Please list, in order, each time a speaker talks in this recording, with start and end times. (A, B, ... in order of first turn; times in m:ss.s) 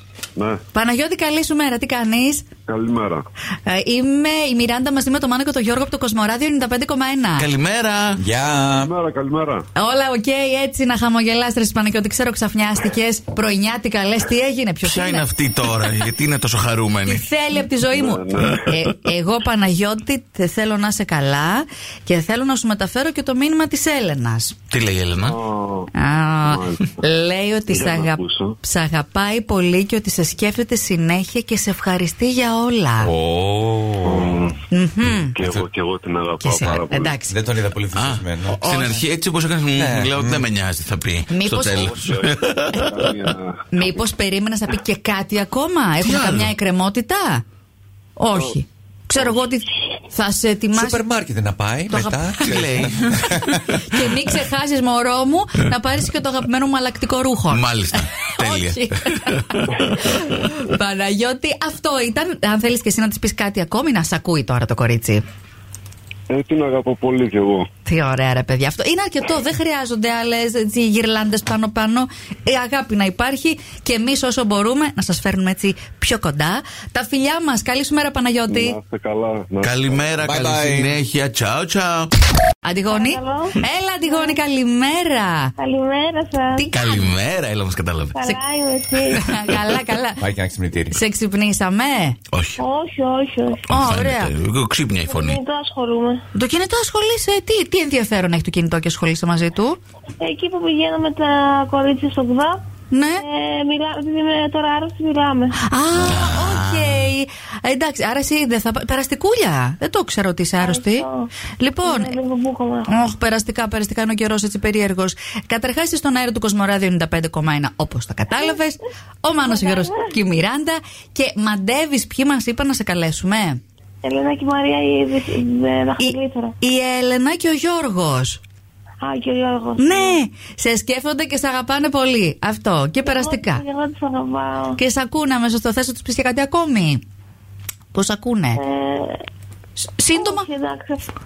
0:00.4-0:00.6 A
0:00.7-0:02.5 B
0:02.7-0:03.2 A
0:03.7-0:07.5 B
0:07.4-0:08.2 C
0:08.2-0:08.9 D
0:08.8-0:09.7 A
0:09.8-0:15.2 B
0:14.8-0:17.3 C
0:17.0-0:24.6 B
0:17.9-0:18.7 A
0:24.7-0:25.4 C
0:25.2-0:25.9 A
0:26.0-0:33.1 B
0:26.4-0:27.0 A
0:27.7-0:28.6 A
0:33.0-0:34.3 D
0:34.0-0:34.6 A
0:34.7-0:35.4 B
0:35.4-0:37.2 A
0:36.4-0:37.4 B
0:37.3-0:39.0 D
0:38.0-0:43.1 C
0:38.7-0:38.9 B
0:39.8-0:40.4 D
0:41.3-0:42.0 B
0:41.9-0:43.7 A
0:43.7-0:47.4 B
0:46.0-0:46.5 C
0:48.2-0:51.0 B
0:50.7-0:53.6 D
0:51.9-0:52.6 B
0:52.4-0:54.1 C
0:53.3-1:05.2 B
0:57.5-0:59.8 C
1:06.3-1:07.7 A
1:07.9-1:18.8 B
1:18.5-1:20.3 A
1:19.6-1:22.1 C
1:20.2-1:21.0 D
1:22.6-1:25.5 B
1:22.9-1:24.4 E
1:25.6-1:26.7 E
1:26.6-1:27.1 B
1:26.7-1:28.2 C
1:28.1-1:29.2 E
1:29.2-1:30.2 B
1:30.2-1:31.0 D
1:30.9-1:32.2 B
1:32.3-1:32.6 C
1:32.6-1:33.7 E
1:33.7-1:34.3 B
1:33.7-1:35.4 C
1:35.1-1:36.2 E
1:36.3-1:39.8 B
1:40.2-1:42.6 E
1:42.9-1:43.2 B
1:43.2-1:45.6 E
1:45.6-1:51.0 B
1:46.0-1:47.1 C
1:50.6-1:51.3 E
1:51.6-1:52.1 B
1:51.8-1:52.9 E
1:52.9-2:03.6 B
1:59.4-2:00.0 E
2:04.0-2:06.6 E
2:06.0-2:08.4 B
2:09.0-2:10.2 E
2:09.8-2:13.6 B
2:13.0-2:14.8 E
2:14.8-2:17.0 B
2:17.9-2:18.6 B
2:18.6-2:19.2 E
2:19.8-2:20.5 B
2:20.1-2:21.0 E